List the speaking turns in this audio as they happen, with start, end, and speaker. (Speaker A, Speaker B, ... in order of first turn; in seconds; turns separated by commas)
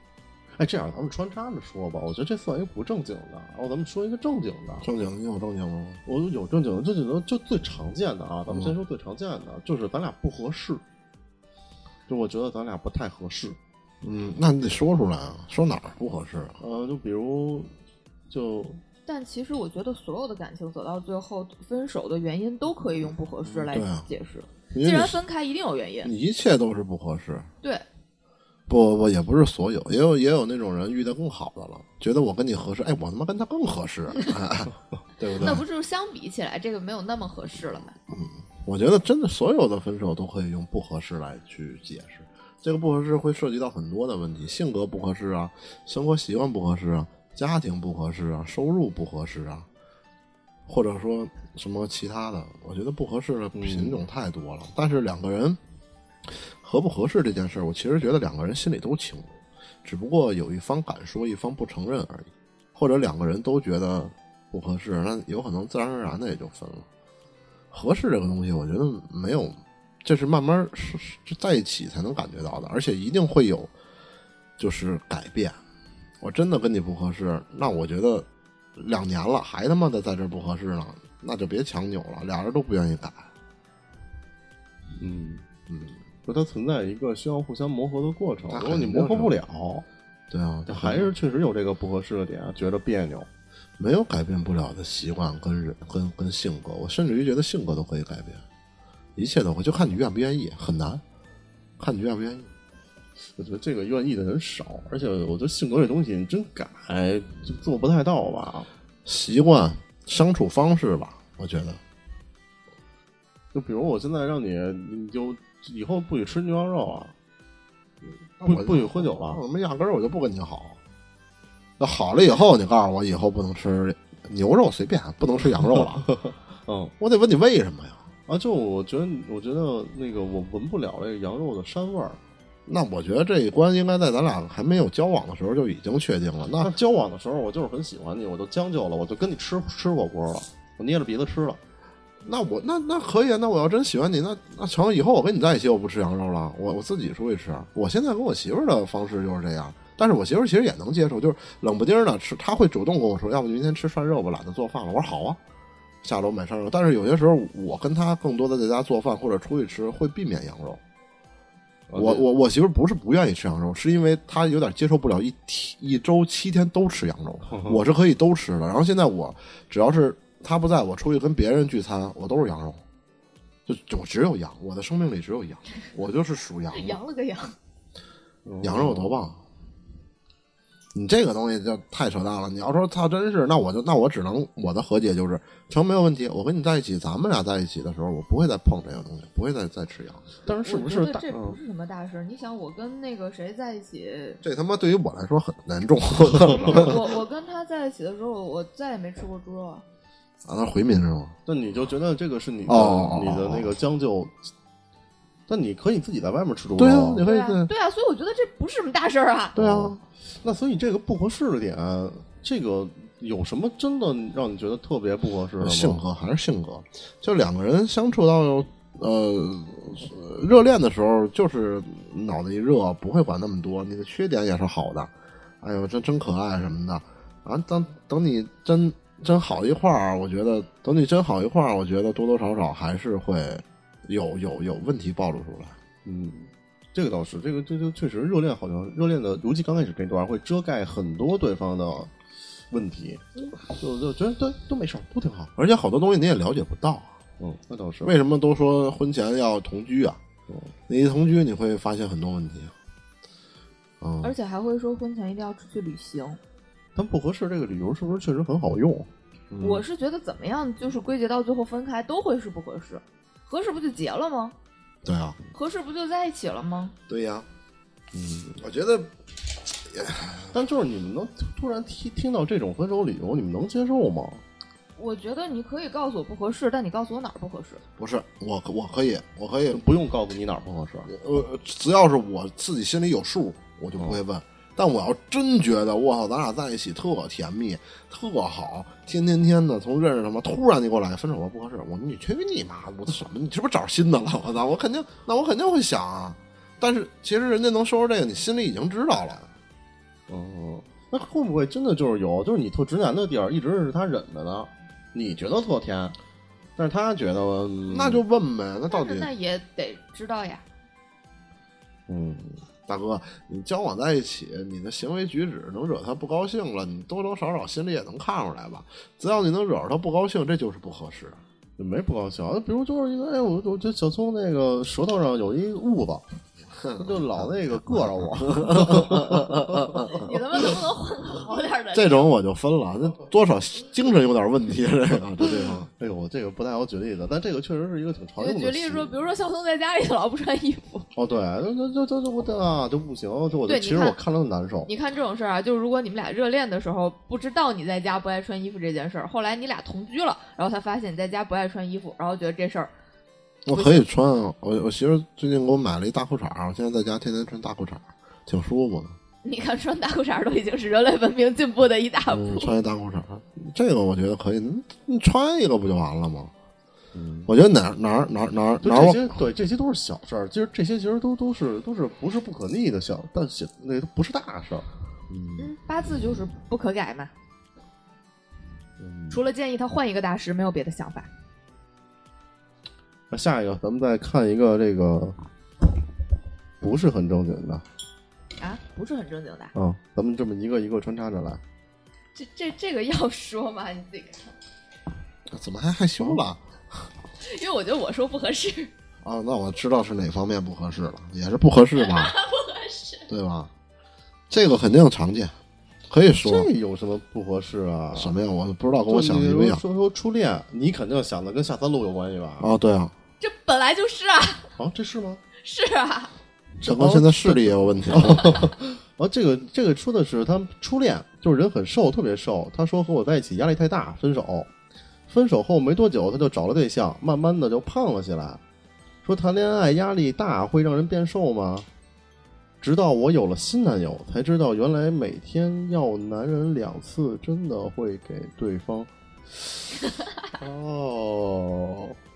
Speaker A: 0.6-4.9, Speaker B: 4.8-6.0, Speaker A: 6.0-10.8, Speaker B: 8.5-8.7, Speaker A: 12.1-13.6, Speaker B: 14.0-16.6, Speaker A: 16.6-17.7, Speaker A: 18.3-18.8, Speaker C: 19.1-26.1, Speaker B: 23.7-24.1, Speaker B: 24.7-25.2, Speaker B: 26.0-27.5, Speaker B: 28.7-35.6, Speaker C: 35.3-37.9, Speaker B: 38.1-49.7, Speaker B: 50.7-55.6, Speaker A: 53.5-54.0, Speaker B: 56.3-66.9, Speaker B: 67.7-73.7, Speaker B: 74.6-75.6, Speaker B: 76.2-83.3, Speaker A: 85.0-85.4, Speaker B: 85.7-86.0, Speaker A: 86.2-89.8, Speaker B: 88.5-89.3, Speaker B: 90.3-91.1, Speaker A: 90.7-93.3, Speaker B: 93.8-98.4, Speaker B: 99.2-101.0, Speaker B: 101.8-102.5, Speaker A: 103.4-108.7, Speaker B: 109.0-111.8, Speaker A: 113.5-117.1, Speaker B: 118.4-120.8, Speaker A: 118.4-119.4, Speaker B: 121.8-126.1, Speaker A: 125.8-126.9, Speaker B: 127.0-128.1, Speaker A: 128.3-132.2, Speaker B: 132.7-136.7, Speaker A: 136.5-141.6, Speaker B: 142.2-155.4, Speaker B: 156.0-160.8, Speaker A: 161.9-162.2, Speaker B: 161.9-172.8, Speaker A: 167.5-167.8, Speaker B: 173.7-177.0, Speaker C: 176.7-177.6, Speaker A: 178.4-179.2, Speaker B: 178.6-179.4, Speaker B: 180.9-190.3, Speaker A: 190.4-191.6, Speaker C: 190.5-194.4, Speaker B: 194.4-197.0, Speaker A: 196.4-196.9, Speaker C: 196.6-199.8, Speaker B: 200.4-201.4, Speaker A: 201.4-204.5, Speaker B: 202.7-203.7, Speaker A: 205.5-207.2, Speaker B: 206.8-207.7, Speaker C: 207.2-209.6, Speaker B: 209.6-210.0, Speaker A: 209.6-216.0, Speaker B: 215.6-235.8, Speaker A: 236.0-242.1, Speaker A: 242.7-245.5, Speaker B: 245.6-247.2, Speaker A: 247.4-248.1, Speaker B: 248.0-250.2, Speaker B: 250.9-252.7, Speaker B: 254.0-254.3, Speaker C: 254.2-256.4, Speaker A: 256.9-259.1, Speaker B: 259.5-259.8, Speaker C: 259.6-264.5, Speaker B: 265.0-265.4, Speaker C: 265.5-266.9, Speaker B: 267.1-267.5, Speaker A: 268.1-268.6, Speaker B: 268.6-270.6, Speaker A: 270.5-274.4, Speaker C: 275.0-277.8, Speaker B: 278.0-279.8, Speaker A: 279.7-281.1, Speaker B: 281.1-299.5, Speaker A: 300.3-306.1, Speaker A: 306.8-308.2, Speaker B: 307.9-309.3, Speaker C: 308.9-310.6, Speaker A: 312.1-312.6, Speaker B: 312.9-321.4, Speaker A: 321.8-326.2, Speaker B: 326.8-327.4, Speaker A: 326.9-330.1, Speaker B: 328.5-330.3, Speaker C: 330.1-332.3, Speaker B: 331.9-335.9, Speaker A: 335.5-339.2, Speaker C: 338.4-341.1, Speaker A: 341.1-344.9, Speaker C: 343.7-344.2, Speaker C: 344.9-352.9, Speaker B: 353.6-359.2, Speaker C: 353.7-354.0, Speaker C: 359.4-362.7, Speaker B: 362.3-366.5, Speaker A: 367.1-367.5, Speaker B: 367.5-369.4, Speaker A: 368.8-375.6, Speaker C: 375.6-377.3, Speaker A: 379.0-379.4, Speaker C: 379.3-381.3, Speaker A: 383.3-385.4, Speaker A: 386.8-387.8, Speaker C: 388.6-389.7, Speaker A: 389.7-391.6, Speaker C: 392.3-394.5, Speaker B: 395.5-397.1, Speaker C: 397.4-398.9, Speaker B: 399.2-402.3, Speaker C: 401.9-403.3, Speaker B: 403.3-403.7, Speaker B: 404.5-405.5, Speaker B: 406.1-406.7, Speaker A: 406.4-408.4, Speaker B: 408.1-409.8, Speaker A: 409.1-412.7, Speaker B: 412.6-413.1, Speaker C: 413.4-414.7, Speaker A: 414.8-415.4, Speaker C: 415.6-416.3, Speaker A: 416.8-424.7, Speaker B: 416.8-418.7, Speaker A: 425.3-428.6, Speaker A: 429.2-431.9, Speaker A: 432.8-439.8, Speaker A: 440.6-442.1